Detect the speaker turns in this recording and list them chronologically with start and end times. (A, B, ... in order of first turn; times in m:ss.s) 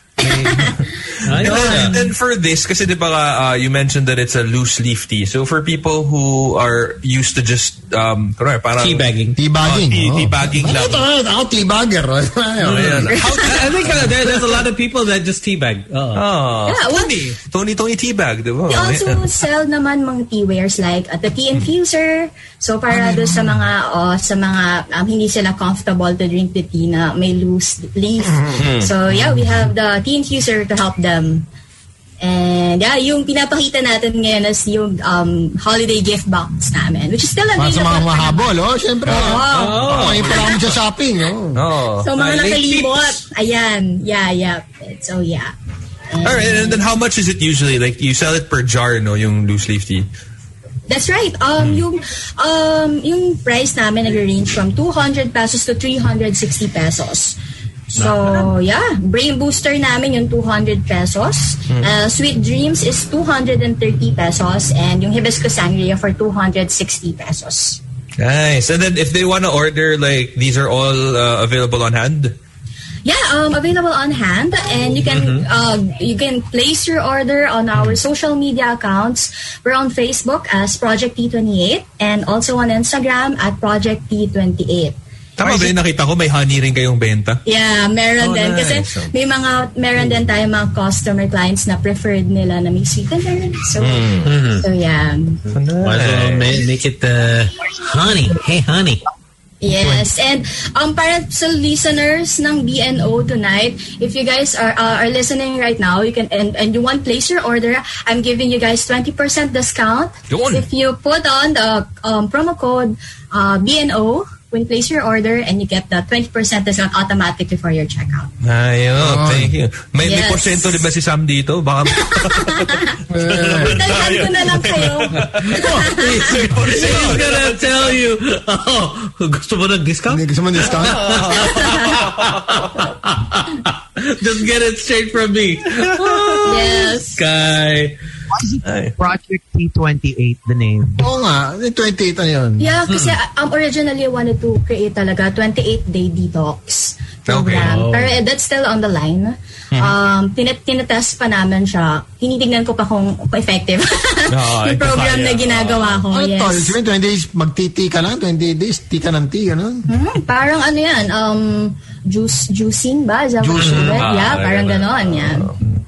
0:00.2-0:00.8 A
0:00.2-0:09.1 B
0:01.2-0:02.0 C
0:01.4-0:01.9 A
0:08.8-0:09.4 C
0:09.4-0:13.1 D
0:09.6-0:11.0 B
0:12.6-0:16.2 C
0:12.6-0:14.3 B
0:13.2-0:13.6 A
0:16.1-0:19.4 B
0:16.6-0:17.3 A
0:18.7-0:31.5 A
0:22.9-0:23.6 D
0:28.6-0:28.9 B
0:29.2-0:29.6 D
0:32.2-0:38.5 A
0:37.6-0:41.6 D
0:39.1-0:40.5 B
0:39.1-0:40.6 A
0:39.2-0:40.5 C
0:41.5-0:42.9 B
0:42.0-0:45.5 A
0:42.2-0:42.9 C
0:46.1-0:46.8 A
0:46.2-0:50.1 B
0:50.9-0:57.4 A
0:57.9-1:07.8 A
1:08.2-1:12.4 B
1:13.0-1:24.9 A
1:15.0-1:15.4 C
1:25.4-1:27.4 B
1:27.4-1:35.4 A
1:28.2-1:29.1 B
1:33.8-1:34.3 B
1:34.2-1:34.6 C
1:35.5-1:36.6 B
1:35.8-1:39.0 C
1:39.6-1:58.3 A
1:50.3-1:50.7 B
1:58.4-2:08.0 B
1:59.0-1:59.5 D
2:00.0-2:00.9 A
2:01.9-2:03.0 A
2:03.1-2:03.8 D
2:03.6-2:06.4 A
2:05.8-2:18.0 C
2:10.1-2:11.1 D
2:10.7-2:12.8 B
2:11.4-2:12.0 A
2:16.0-2:16.3 B
2:16.4-2:17.2 A
2:18.3-2:21.0 E
2:18.6-2:19.0 B
2:21.0-2:22.8 D
2:22.6-2:36.8 A
2:22.9-2:23.1 C
2:27.3-2:27.8 B
2:27.5-2:28.1 C
2:34.3-2:36.1 B
2:36.1-2:39.8 D
2:39.9-2:45.5 A
2:43.4-2:44.0 D
2:43.6-2:44.0 C
2:43.7-2:45.6 B